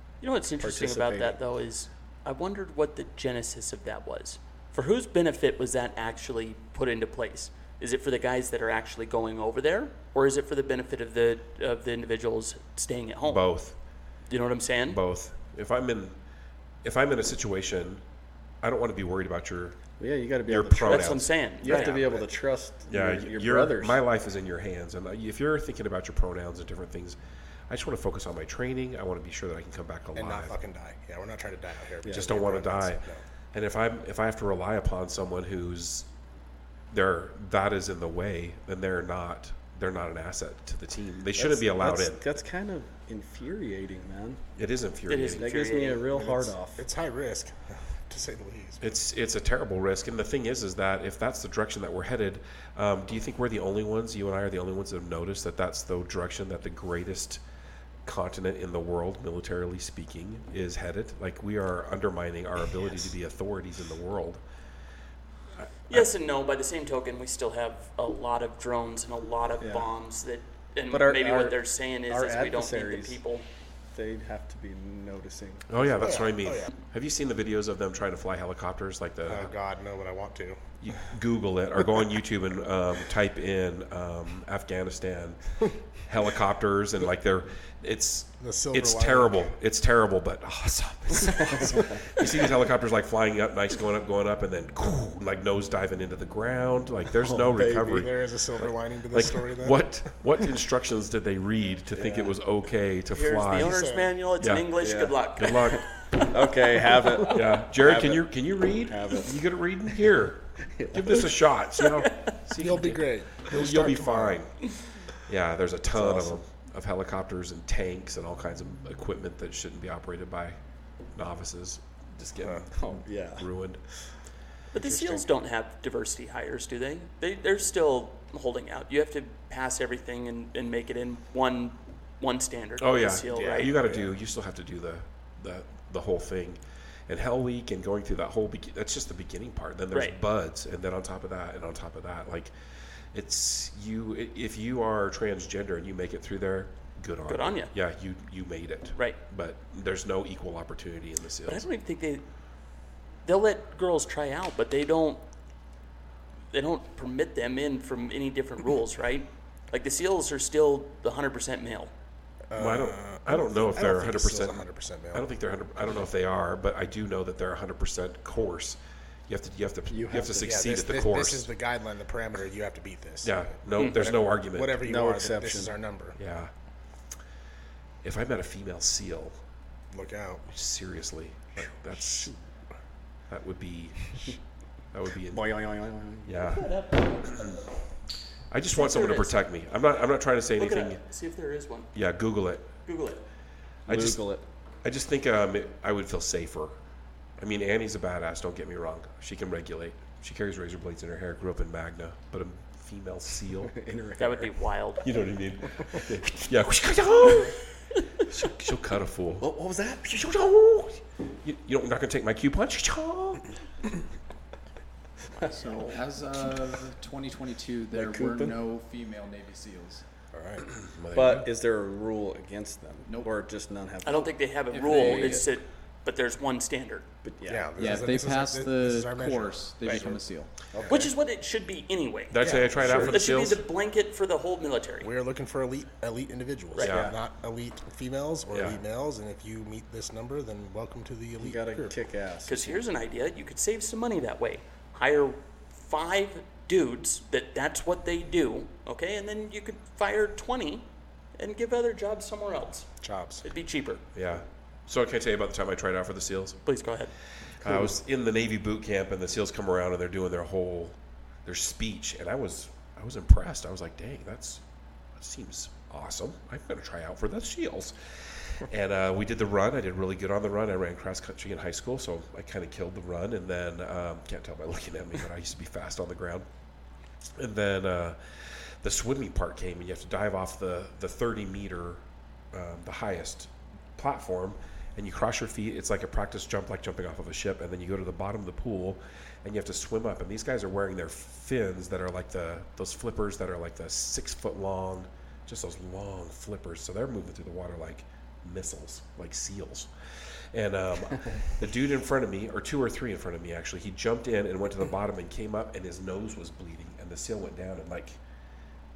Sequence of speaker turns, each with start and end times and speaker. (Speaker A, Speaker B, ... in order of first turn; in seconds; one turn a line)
Speaker A: 0.2-13.4
Speaker B: 0.6-1.4
Speaker C: 13.2-13.7
Speaker A: 14.3-15.0
Speaker C: 14.9-16.1
Speaker C: 16.8-18.0
Speaker C: 18.6-19.8
Speaker B: 20.0-24.0
Speaker C: 20.4-21.3
Speaker A: 20.9-22.0
Speaker D: 21.6-22.3
Speaker C: 22.9-27.2
Speaker C: 27.7-30.6
Speaker D: 30.1-33.2
Speaker B: 32.0-32.3
Speaker C: 32.1-36.1
Speaker C: 36.9-42.2
Speaker B: 41.4-44.4
Speaker C: 44.5-45.5
Speaker A: 45.1-46.0
Speaker B: 45.3-46.8
Speaker D: 46.1-48.8
Speaker C: 48.8-57.4
Speaker C: 58.0-64.4
Speaker C: 65.6-66.1
Speaker A: 65.9-73.4
Speaker B: 69.6-69.9
Speaker B: 70.9-73.2
Speaker B: 73.9-76.2
Speaker C: 75.7-79.5
Speaker D: 76.0-76.7
Speaker D: 79.3-80.6
Speaker C: 80.8-85.4
Speaker C: 86.0-103.8
Speaker D: 88.4-89.5
Speaker B: 97.2-98.1
Speaker D: 97.9-99.8
Speaker B: 101.9-102.3
Speaker A: 103.1-105.8
Speaker D: 103.5-104.1
Speaker C: 104.4-104.7
Speaker B: 104.8-109.3
Speaker C: 105.3-105.8
Speaker C: 107.3-114.7
Speaker B: 110.7-111.3
Speaker A: 112.0-112.3
Speaker D: 112.6-114.4
Speaker C: 115.2-120.5
Speaker B: 115.9-116.4
Speaker C: 121.1-123.8
Speaker B: 122.8-123.5
Speaker A: 124.7-133.7
Speaker D: 124.8-125.2
Speaker C: 132.8-142.5
Speaker D: 133.3-134.1
Speaker C: 143.1-151.6
Speaker A: 147.3-147.7
Speaker A: 151.5-152.2
Speaker A: 153.2-155.2
Speaker A: 156.5-161.9
Speaker D: 162.5-165.3
Speaker C: 162.6-171.5
Speaker B: 169.9-170.7
Speaker D: 170.4-176.2
Speaker C: 173.2-174.8
Speaker B: 174.8-175.7
Speaker C: 176.2-176.5
Speaker C: 178.0-179.4
Speaker D: 179.9-180.5
Speaker C: 180.5-182.3
Speaker C: 183.3-184.4
Speaker C: 184.9-185.6
Speaker B: 185.3-186.6
Speaker C: 186.2-186.7
Speaker A: 186.5-187.6
Speaker C: 187.2-187.5
Speaker C: 188.5-191.0
Speaker A: 188.7-189.4
Speaker A: 190.6-191.9
Speaker C: 191.9-192.7
Speaker A: 192.8-193.2
Speaker C: 193.8-194.2
Speaker B: 193.9-194.4
Speaker C: 194.8-196.7
Speaker C: 197.4-203.7
Speaker B: 203.7-204.5
Speaker A: 204.2-205.0
Speaker C: 205.0-207.6
Speaker C: 208.2-209.5
Speaker B: 209.4-210.2
Speaker C: 210.1-213.5
Speaker E: 215.4-220.0
Speaker B: 215.4-215.7
Speaker B: 217.9-218.6
Speaker D: 220.3-220.7
Speaker C: 220.8-221.5
Speaker B: 221.1-225.4
Speaker A: 224.0-227.1
Speaker E: 224.7-225.5
Speaker B: 227.2-227.7
Speaker D: 227.4-230.2
Speaker E: 227.8-230.5
Speaker B: 230.7-231.0
Speaker D: 230.7-231.1
Speaker A: 230.9-235.1
Speaker C: 232.3-233.6
Speaker D: 232.4-233.1
Speaker B: 232.8-233.1
Speaker D: 235.0-241.9
Speaker C: 236.8-237.1
Speaker B: 236.8-237.2
Speaker C: 238.5-238.8
Speaker B: 241.4-242.8
Speaker A: 242.5-250.8
Speaker A: 251.4-252.9
Speaker D: 253.0-253.4
Speaker A: 253.4-254.0
Speaker C: 254.1-256.6
Speaker A: 256.6-257.1
Speaker C: 257.6-264.6
Speaker C: 265.2-276.4
Speaker C: 277.4-278.2
Speaker C: 278.8-282.0
Speaker C: 282.5-299.9
Speaker C: 300.5-308.2